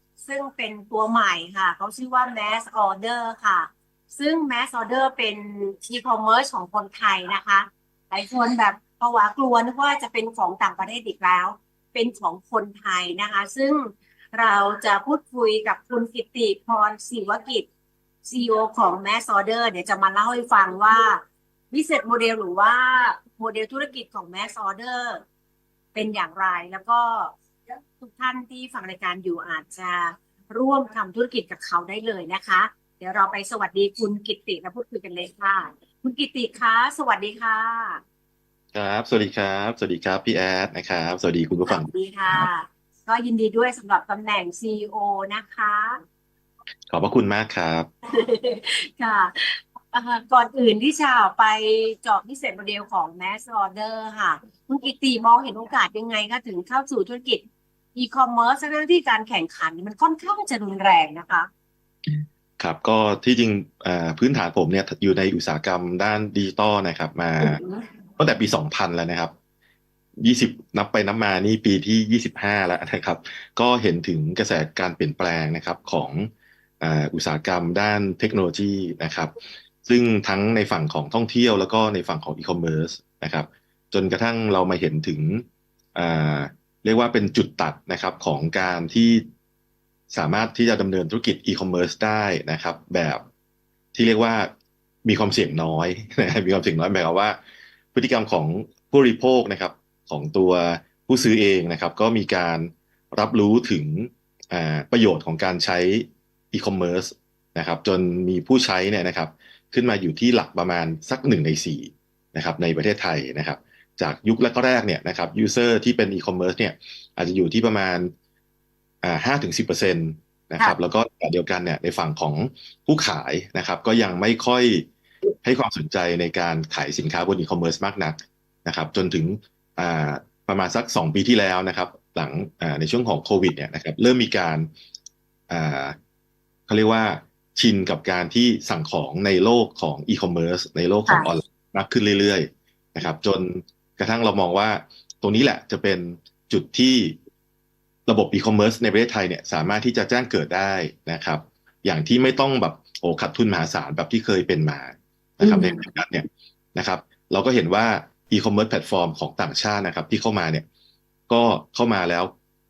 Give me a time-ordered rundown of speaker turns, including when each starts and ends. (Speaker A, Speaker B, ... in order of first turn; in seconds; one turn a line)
Speaker A: 0.2-17.7
Speaker A: 18.2-25.2
Speaker A: 25.9-27.4
Speaker A: 28.0-38.0
Speaker B: 38.7-42.5
Speaker A: 41.7-46.0
Speaker B: 46.9-47.9
Speaker A: 48.1-57.4
Speaker A: 58.0-61.5
Speaker B: 62.1-67.6
Speaker A: 67.4-67.8
Speaker B: 68.2-69.3
Speaker B: 70.2-76.3
Speaker B: 76.8-79.3
Speaker B: 79.9-85.4
Speaker B: 86.0-89.2
Speaker B: 90.1-93.2
Speaker B: 93.9-94.5
Speaker B: 95.0-97.4
Speaker B: 97.9-118.1
Speaker B: 119.0-124.9
Speaker B: 125.4-134.7
Speaker B: 135.5-136.0
Speaker B: 136.7-147.2
Speaker B: 148.1-160.7
Speaker A: 155.4-155.9
Speaker B: 161.3-162.3